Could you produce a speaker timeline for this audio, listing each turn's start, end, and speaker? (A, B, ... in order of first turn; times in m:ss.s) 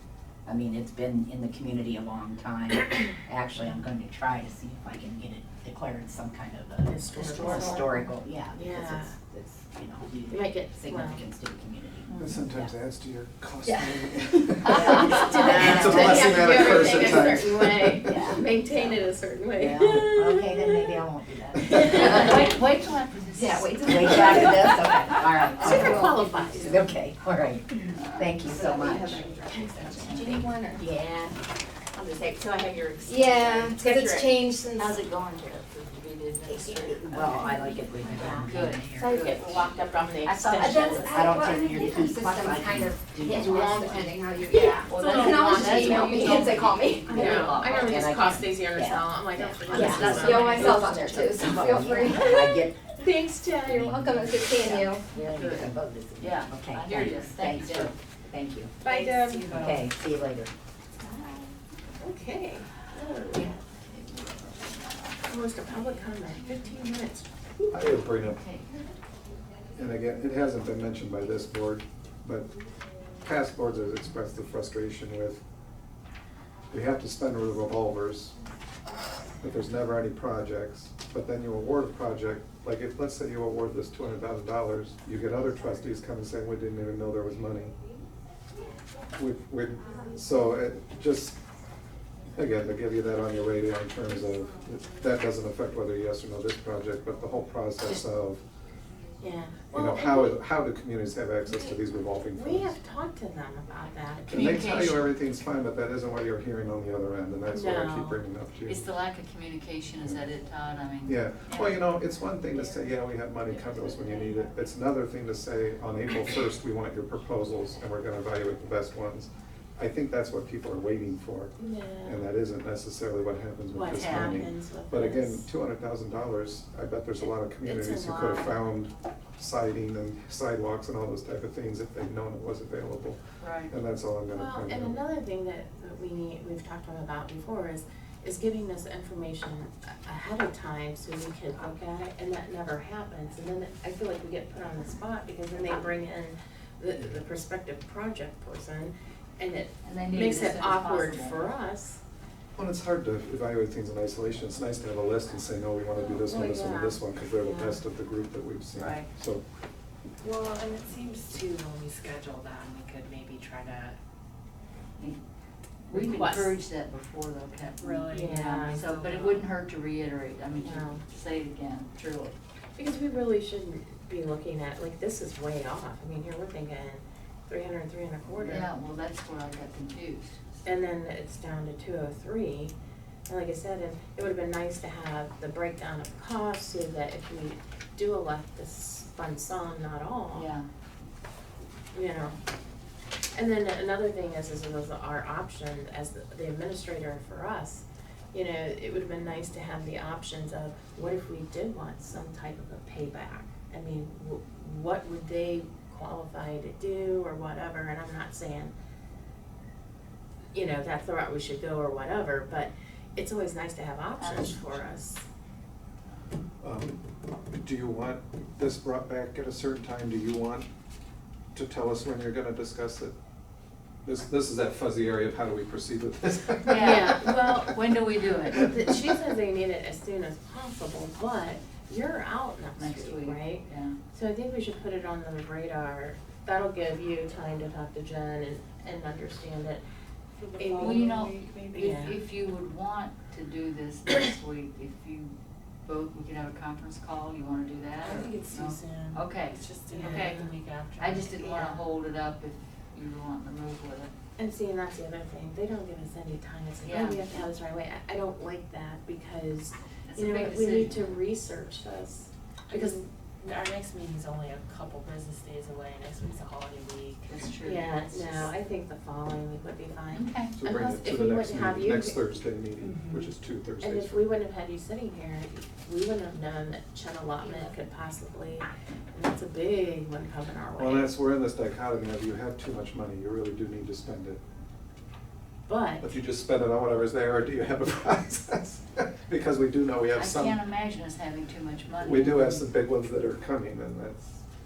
0:00.5-0:12.7 A
0:06.8-0:09.1 B
0:07.3-0:07.7 C
0:10.3-0:11.2 B
0:12.2-0:18.2 D
0:13.7-0:16.1 E
0:14.6-0:17.4 A
0:14.8-0:20.9 B
0:18.0-0:19.0 A
0:19.5-0:22.7 A
0:21.7-0:22.7 E
0:21.8-0:22.2 B
0:22.3-0:23.4 C
0:23.3-0:26.8 E
0:23.3-0:31.3 A
0:25.6-0:26.8 B
0:28.0-0:28.7 C
0:28.9-0:31.3 E
0:29.4-0:30.0 B
0:32.0-0:34.4 A
0:33.0-0:35.1 E
0:34.8-0:37.7 C
0:36.4-0:39.2 A
0:38.1-0:41.3 B
0:38.2-0:39.6 C
0:40.2-0:44.2 A
0:40.5-0:47.5 E
0:44.6-0:47.9 C
0:47.1-0:51.0 B
0:47.2-0:52.8 A
0:49.7-0:52.6 E
0:52.4-0:53.8 B
0:53.6-0:55.0 E
0:53.7-0:58.7 A
0:55.1-0:57.9 C
0:58.8-0:59.5 B
0:59.0-0:59.9 F
0:59.4-1:00.5 A
1:02.0-1:03.6 B
1:05.2-1:07.9 B
1:07.7-1:08.4 D
1:08.2-1:08.7 C
1:09.8-1:12.5 D
1:13.2-1:15.4 D
1:16.7-1:18.4 D
1:19.4-1:27.8 D
1:29.2-1:31.4 D
1:32.3-1:38.4 D
1:39.2-1:40.4 B
1:39.7-1:42.8 D
1:42.3-1:45.0 B
1:44.3-1:48.9 D
1:44.3-1:45.1 C
1:47.5-1:48.2 B
1:48.7-1:51.2 C
1:51.0-2:15.0 D
2:01.6-2:02.3 B
2:03.7-2:05.5 B
2:04.0-2:04.5 C
2:07.6-2:08.6 B
2:13.4-2:13.7 C
2:14.3-2:32.0 B
2:29.8-2:31.5 C
2:32.6-2:39.4 D
2:36.0-2:37.8 B
2:40.2-2:44.0 F
2:45.9-2:52.4 C
2:45.9-2:46.6 B
2:47.8-2:49.5 F
2:48.1-2:48.8 B
2:50.6-2:51.0 B
2:52.8-2:58.7 B
2:58.4-3:00.4 C
3:00.6-3:02.7 B
3:03.3-3:10.5 B
3:10.3-3:10.7 C
3:11.9-3:12.4 B
3:13.3-3:28.7 B
3:30.5-3:35.2 B
3:34.2-3:34.9 C
3:36.6-3:37.0 D
3:37.6-3:40.7 D
3:41.5-3:43.1 D
3:44.0-3:47.8 D
3:46.7-3:48.7 C
3:46.7-3:47.7 B
3:48.5-3:49.3 D
3:48.5-3:59.8 B
3:52.8-3:54.0 C
4:00.4-4:01.9 F
4:00.6-4:01.1 B
4:00.8-4:10.4 C
4:01.7-4:02.2 B
4:08.0-4:11.7 F
4:09.9-4:10.5 B
4:11.0-4:14.1 C
4:11.5-4:11.8 B
4:14.4-4:23.0 B
4:16.8-4:17.3 C
4:20.1-4:21.2 C
4:22.7-4:27.5 F
4:27.3-4:28.0 C
4:27.6-4:32.2 B
4:28.1-4:28.5 F
4:30.1-4:30.5 C
4:30.6-4:34.3 D
4:32.8-4:33.3 F
4:33.8-4:41.1 B
4:37.4-4:37.7 C
4:40.8-4:44.4 D
4:45.7-4:46.1 B
4:46.0-4:50.6 D
4:50.2-4:52.7 C
4:52.0-4:54.4 D